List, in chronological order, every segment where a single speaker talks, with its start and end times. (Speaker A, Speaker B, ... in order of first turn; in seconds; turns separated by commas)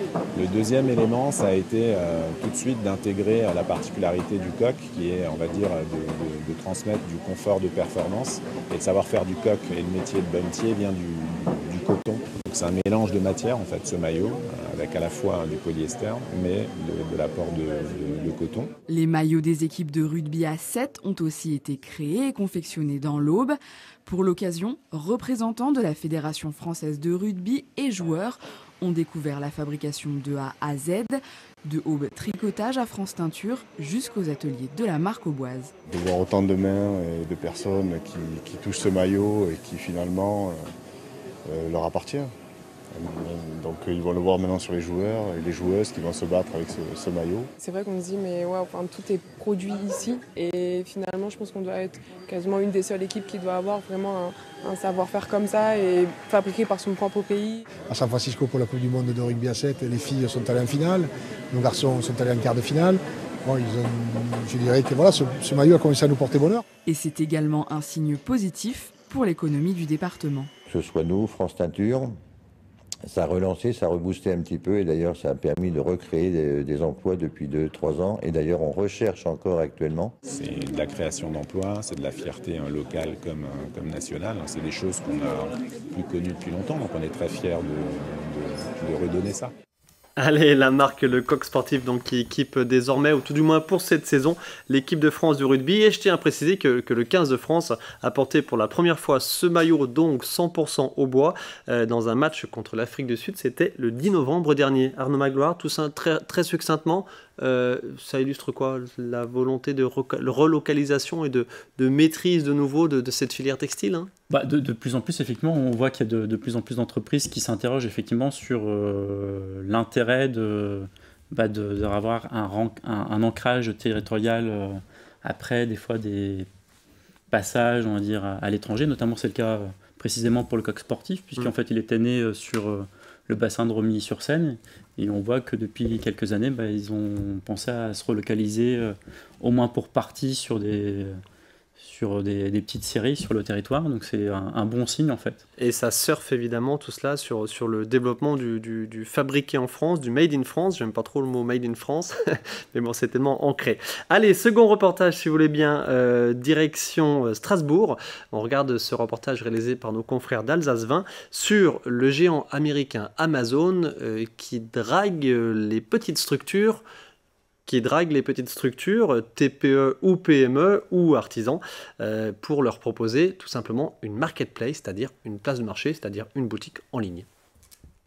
Speaker A: 0.3-18.7, Speaker B: 18.9-35.7, Speaker C: 35.9-40.6, Speaker C: 41.5-42.3, Speaker C: 42.9-47.5, Speaker D: 47.6-57.6, Speaker E: 57.9-66.6, Speaker B: 66.8-70.5, Speaker F: 70.7-72.2, Speaker F: 73.1-80.2, Speaker A: 80.3-89.5, Speaker G: 90.2-114.1, Speaker H: 114.3-126.5, Speaker H: 127.3-141.2, Speaker H: 141.8-145.4, Speaker G: 145.6-166.8, Speaker G: 167.7-177.3